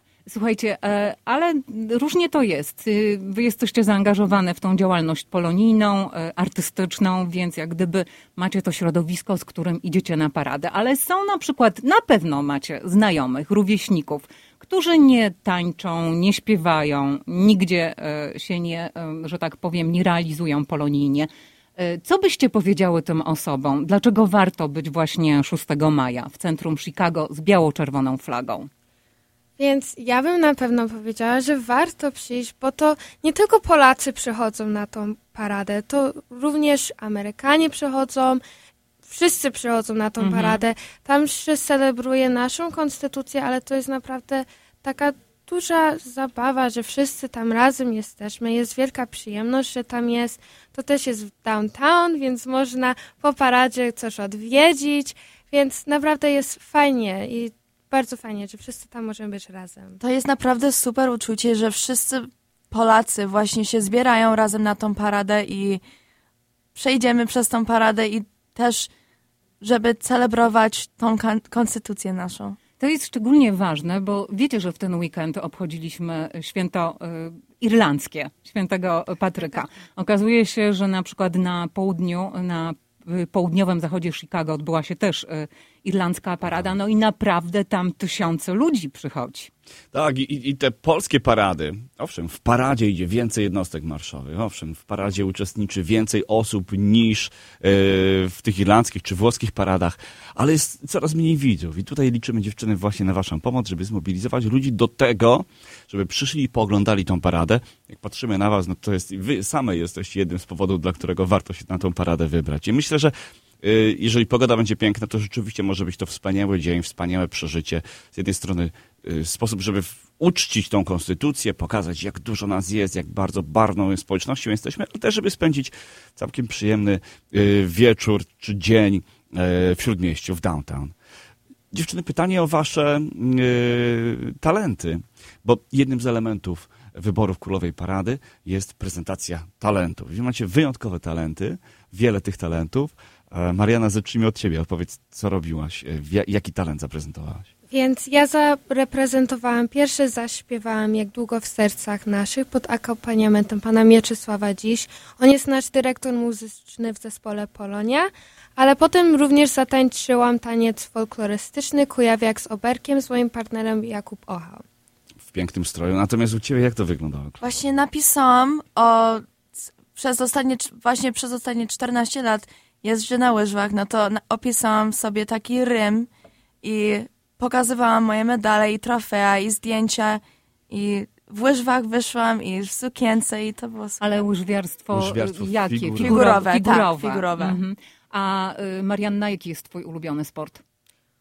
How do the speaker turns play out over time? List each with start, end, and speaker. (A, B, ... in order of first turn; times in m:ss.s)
0:00.3-0:28.7 A
0:29.6-0:38.4 B
0:39.1-1:00.0 B
0:40.2-0:40.6 A
1:00.0-1:05.8 C
1:06.8-1:08.9 C
1:09.6-1:12.6 C
1:12.8-1:29.5 A
1:29.9-2:10.9 D
2:11.7-2:27.5 D
2:27.7-2:44.6 B
2:45.2-2:47.5 D
2:47.4-2:49.3 C
2:49.9-2:56.1 C
2:56.6-3:04.0 C
3:04.0-3:10.6 A
3:04.9-3:06.2 D
3:06.0-3:07.6 C